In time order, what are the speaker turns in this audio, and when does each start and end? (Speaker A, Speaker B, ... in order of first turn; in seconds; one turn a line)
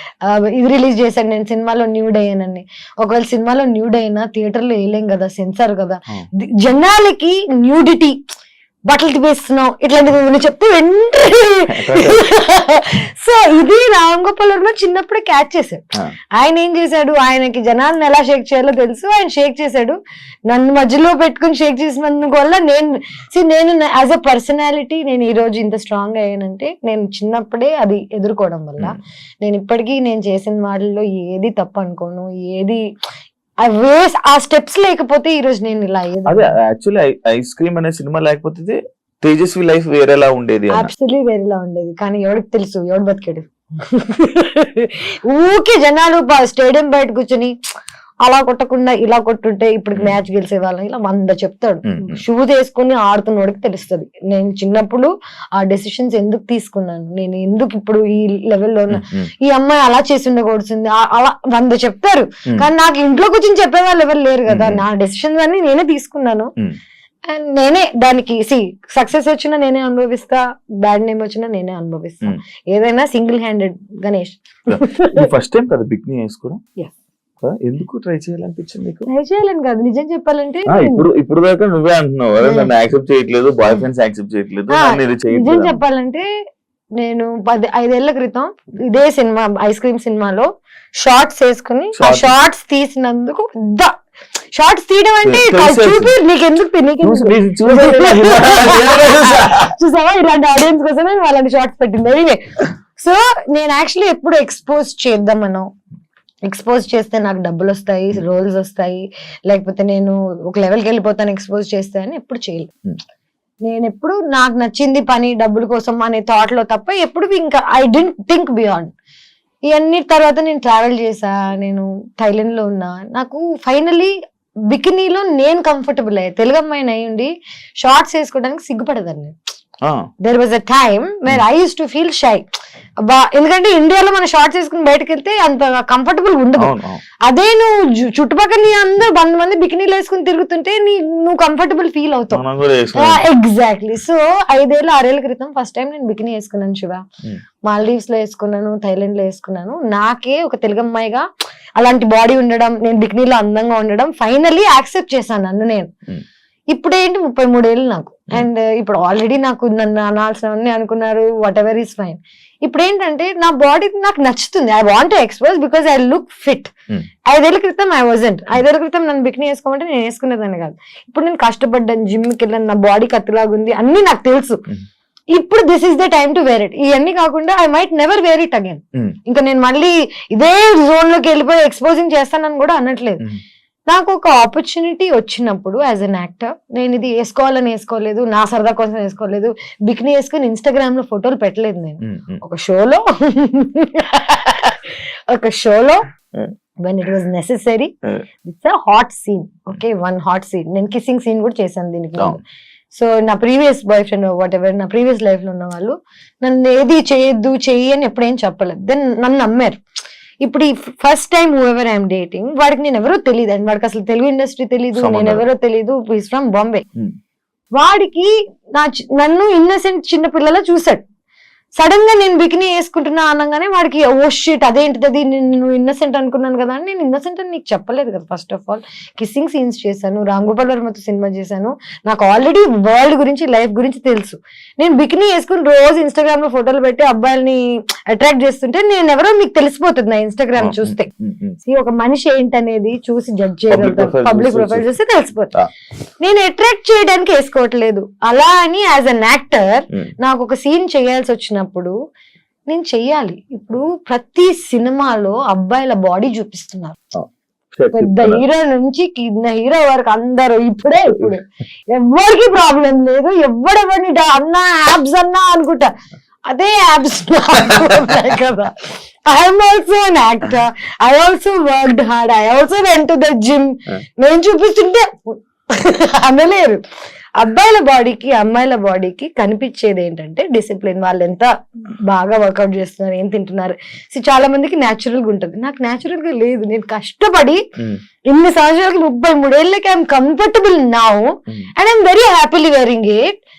Speaker A: 0.2-8.2
Speaker A: 8.9-15.8
Speaker B: 11.7-12.2
Speaker A: 16.4-20.0
Speaker A: 20.5-32.8
Speaker A: 33.6-36.5
Speaker B: 36.3-40.9
Speaker A: 40.7-47.5
Speaker A: 48.2-66.5
Speaker B: 51.9-52.2
Speaker B: 58.9-59.3
Speaker B: 64.5-64.8
Speaker A: 67.3-75.3
Speaker B: 74.7-76.6
Speaker B: 77.4-79.1
Speaker A: 79.1-81.0
Speaker B: 80.7-85.8
Speaker A: 82.4-82.7
Speaker A: 84.7-86.3
Speaker A: 87.0-90.5
Speaker A: 91.0-94.0
Speaker B: 92.0-92.4
Speaker A: 94.6-105.7
Speaker B: 95.2-96.2
Speaker B: 97.0-99.7
Speaker A: 106.5-112.7
Speaker A: 113.6-118.9
Speaker A: 119.7-124.1
Speaker A: 124.7-127.3
Speaker A: 127.8-129.4
Speaker A: 130.2-132.5
Speaker A: 133.0-142.4
Speaker B: 136.6-137.0
Speaker B: 142.3-143.2
Speaker A: 142.9-147.0
Speaker A: 147.6-151.2
Speaker A: 151.8-155.9
Speaker A: 156.7-166.7
Speaker A: 167.3-174.6
Speaker A: 175.3-183.2
Speaker A: 183.9-196.1
Speaker B: 192.0-192.4
Speaker A: 196.8-197.9
Speaker A: 198.4-202.4
Speaker A: 202.9-209.8
Speaker A: 210.4-216.9
Speaker B: 215.0-215.4
Speaker A: 217.8-221.0
Speaker A: 221.8-241.1
Speaker B: 240.6-241.6
Speaker A: 241.6-245.5
Speaker B: 243.7-244.9
Speaker A: 246.2-251.9
Speaker A: 252.7-257.0
Speaker B: 257.1-258.4
Speaker A: 257.9-265.9
Speaker B: 261.1-261.3
Speaker A: 266.5-276.8
Speaker A: 277.4-281.5
Speaker A: 282.1-287.6
Speaker A: 288.3-293.3